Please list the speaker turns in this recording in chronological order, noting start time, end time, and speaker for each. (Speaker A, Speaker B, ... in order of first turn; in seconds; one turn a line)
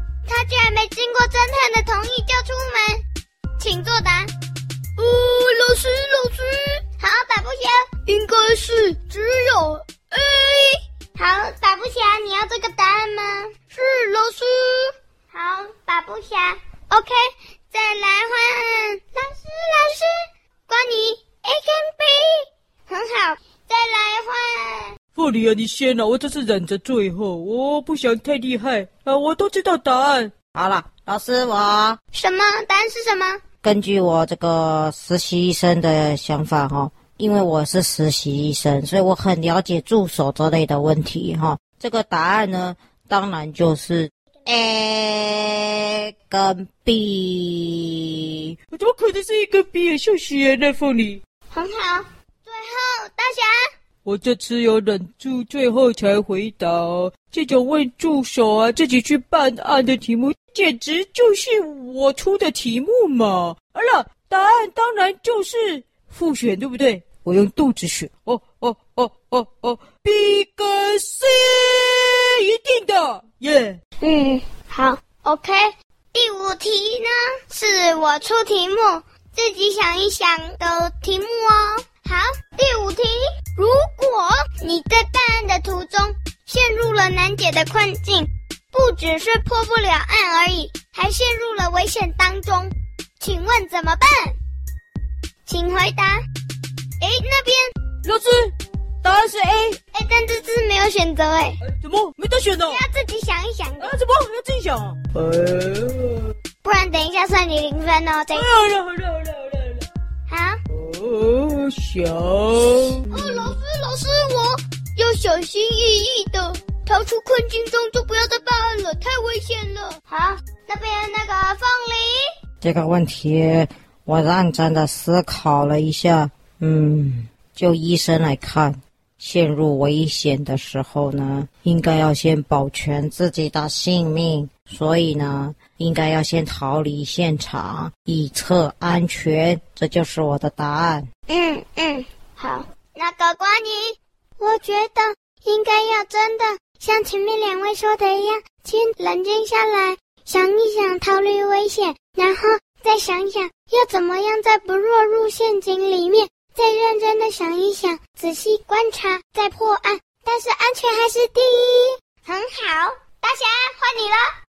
Speaker A: 0.3-3.0
Speaker A: 3.6-4.3
Speaker A: 5.0-24.9
Speaker B: 25.1-30.3
Speaker C: 30.5-32.0
Speaker A: 32.1-33.4
Speaker C: 33.6-48.5
Speaker B: 48.7-51.2
Speaker A: 51.5-53.5
Speaker B: 54.0-73.8
Speaker A: 74.0-94.3
Speaker A: 95.5-96.2
Speaker A: 97.0-97.7
Speaker B: 98.0-99.8
Speaker A: 99.9-101.6
Speaker B: 101.6-102.8
Speaker A: 102.7-103.9
Speaker B: 103.8-106.3
Speaker A: 106.6-108.5
Speaker B: 108.3-109.8
Speaker A: 110.3-110.6
Speaker B: 110.7-113.1
Speaker A: 113.1-122.2
Speaker C: 122.6-141.1
Speaker A: 141.3-164.3